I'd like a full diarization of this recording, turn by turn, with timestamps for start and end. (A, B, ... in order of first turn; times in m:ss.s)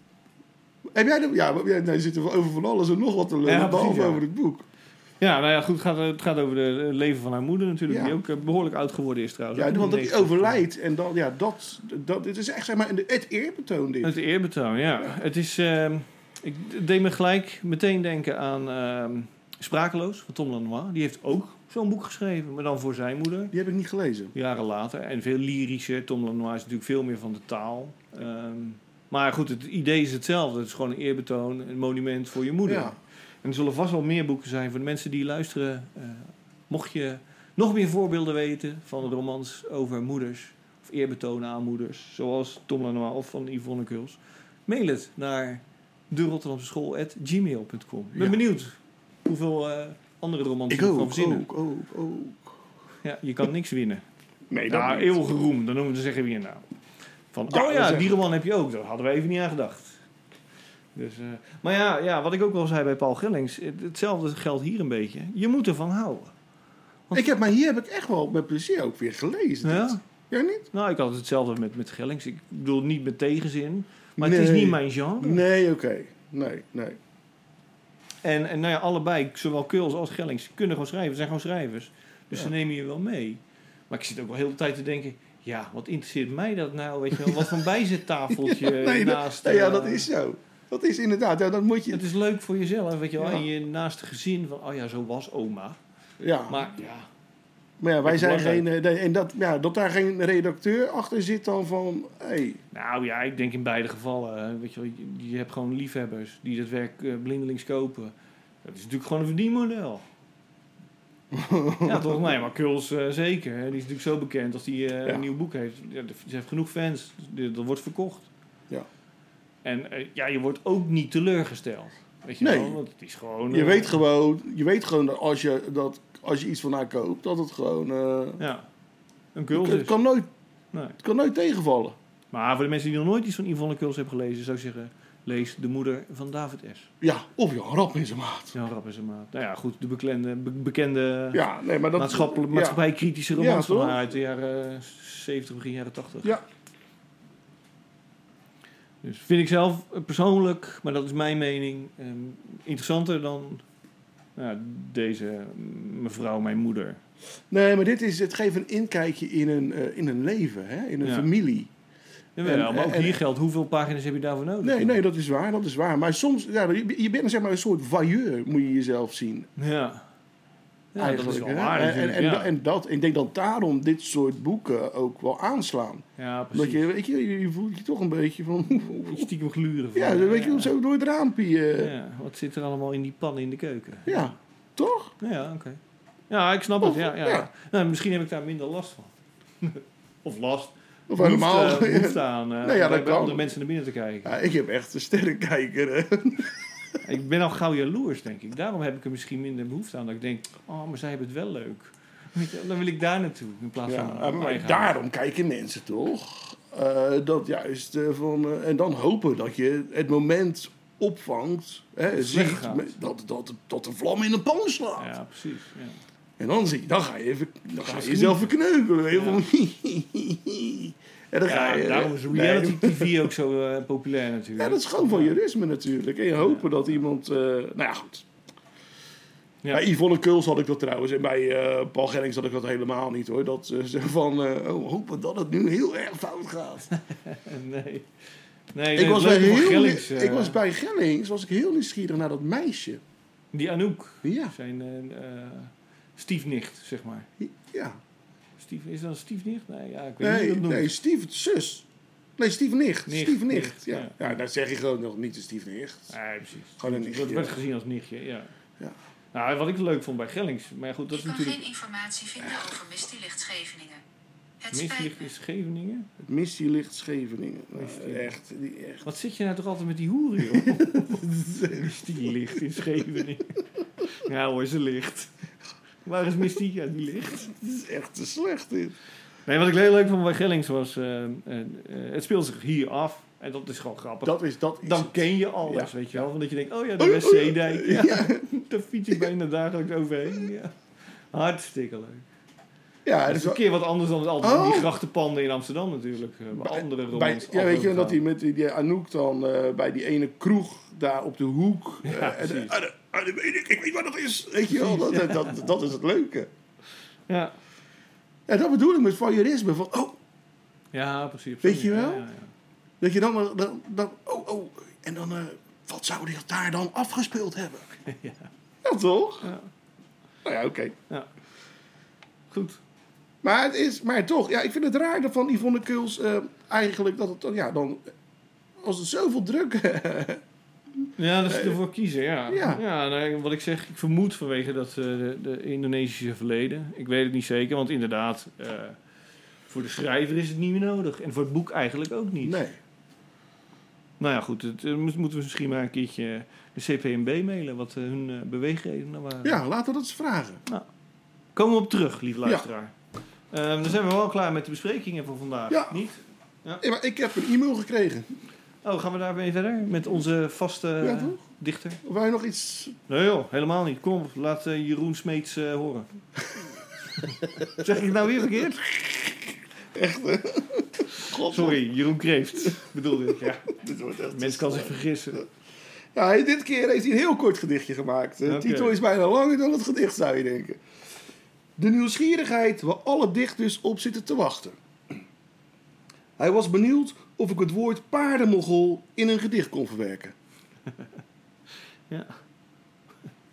0:00.9-0:04.7 A
0:03.4-0:04.2 B
0:05.2-0:10.6 B
0:07.9-0:08.2 A
0:09.6-0:14.1 A
0:14.0-0:23.5 B
0:23.5-0:24.3 A
0:24.3-0:51.4 B
0:32.6-0:33.0 A
0:48.1-0:48.4 A
0:50.7-0:52.6 A
0:53.0-0:54.0 B
0:54.5-0:55.2 A
0:54.7-0:56.6 B
0:57.3-1:00.0 B
0:57.5-0:58.1 A
1:01.0-1:06.3 B
1:07.1-1:10.7 A
1:09.6-1:10.0 B
1:10.7-1:15.4 B
1:14.2-1:17.0 A
1:18.2-1:30.1 B
1:27.2-1:27.5 A
1:28.3-1:32.0 A
1:31.9-1:35.8 B
1:33.2-1:33.4 A
1:36.2-1:36.6 A
1:36.5-1:37.1 B
1:37.8-1:42.6 A
1:38.0-1:38.7 B
1:42.7-1:50.0 B
1:51.3-1:52.3 A
1:51.8-1:58.3 B
1:59.6-2:04.0 B
2:02.4-2:02.8 A
2:03.5-2:08.4 A
2:08.4-2:08.7 B
2:09.4-2:10.0 B
2:09.5-2:10.3 A
2:11.0-2:12.0 A
2:12.3-2:16.9 B
2:17.0-2:18.5 A
2:18.5-2:21.4 B
2:21.3-2:22.8 A
2:22.0-2:26.4 B
2:23.4-2:24.1 A
2:29.0-2:33.6 B
2:34.4-2:37.0 B
2:37.5-2:41.7 A
2:41.0-2:41.3 B
2:42.4-2:45.0 B
2:42.4-2:43.2 A
2:44.6-2:49.5 A
2:49.6-2:50.0 B
2:50.9-2:52.5 B
2:51.0-2:59.3 A
2:56.2-2:56.9 B
2:59.0-3:00.7 B
3:00.0-3:01.9 A
3:01.8-3:04.3 B
3:04.1-3:05.1 A
3:05.2-3:09.1 B
3:06.8-3:07.5 A
3:09.6-3:14.3 B
3:11.1-3:13.5 A
3:14.2-3:16.7 A
3:17.0-3:24.9 B
3:23.9-3:35.1 A
3:32.1-3:32.9 B
3:35.0-3:36.0 B
3:36.4-3:43.3 A
3:37.8-3:38.5 B
3:39.1-3:39.4 B
3:41.5-3:45.4 B
3:44.6-3:48.3 A
3:46.4-3:46.7 B
3:49.7-3:56.9 A
3:57.0-3:58.1 B
3:58.7-4:00.6 B
3:59.0-4:03.0 A
4:03.5-4:07.3 B
4:04.2-4:04.5 A
4:07.4-4:08.0 A
4:08.6-4:10.9 B
4:10.2-4:11.9 A
4:12.4-4:16.1 A
4:13.1-4:14.3 B
4:16.1-4:18.5 B
4:16.8-4:17.6 A
4:19.3-4:21.7 B
4:21.1-4:24.0 C
4:22.4-4:22.7 A
4:24.6-4:25.3 C
4:24.7-4:26.3 B
4:26.3-4:29.1 A
4:27.8-4:28.3 B
4:29.0-4:33.6 B
4:30.4-4:32.1 A
4:34.1-4:35.3 B
4:36.0-4:37.5 B
4:37.5-4:39.0 A
4:39.4-4:50.7 B
4:44.2-4:45.9 A
4:47.0-4:48.4 A
4:51.3-4:52.2 B
4:53.0-4:53.6 A
4:53.3-4:58.2 B
4:54.4-4:54.9 A
4:56.6-5:06.5 A
5:02.0-5:02.7 B
5:04.7-5:05.6 B
5:07.3-5:07.5 B
5:08.5-5:10.2 A
5:10.9-5:12.5 B
5:11.6-5:12.2 A
5:13.0-5:17.9 A
5:18.0-5:18.5 B
5:18.8-5:19.5 A
5:19.4-5:19.7 B
5:20.4-5:21.0 A
5:22.5-5:22.8 B
5:23.4-5:28.1 A
5:28.8-5:30.4 A
5:31.2-5:39.0 B
5:31.5-5:31.8 A
5:32.5-5:32.8 A
5:39.7-5:42.6 B
5:42.4-5:42.8 A
5:44.2-5:49.6 B
5:49.4-5:50.6 A
5:51.6-5:52.9 B
5:53.5-5:56.8 B
5:55.7-5:56.0 A
5:56.8-5:58.3 A
5:58.8-6:02.0 B
6:01.0-6:01.4 A
6:02.0-6:03.0 A
6:03.1-6:06.1 B
6:07.2-6:09.2 B
6:09.9-6:11.8 A
6:11.1-6:13.7 B
6:12.6-6:15.5 A
6:14.3-6:15.4 B
6:16.1-6:20.8 A
6:18.4-6:19.0 B
6:21.8-6:24.8 A
6:26.4-6:30.4 A
6:32.1-6:32.4 B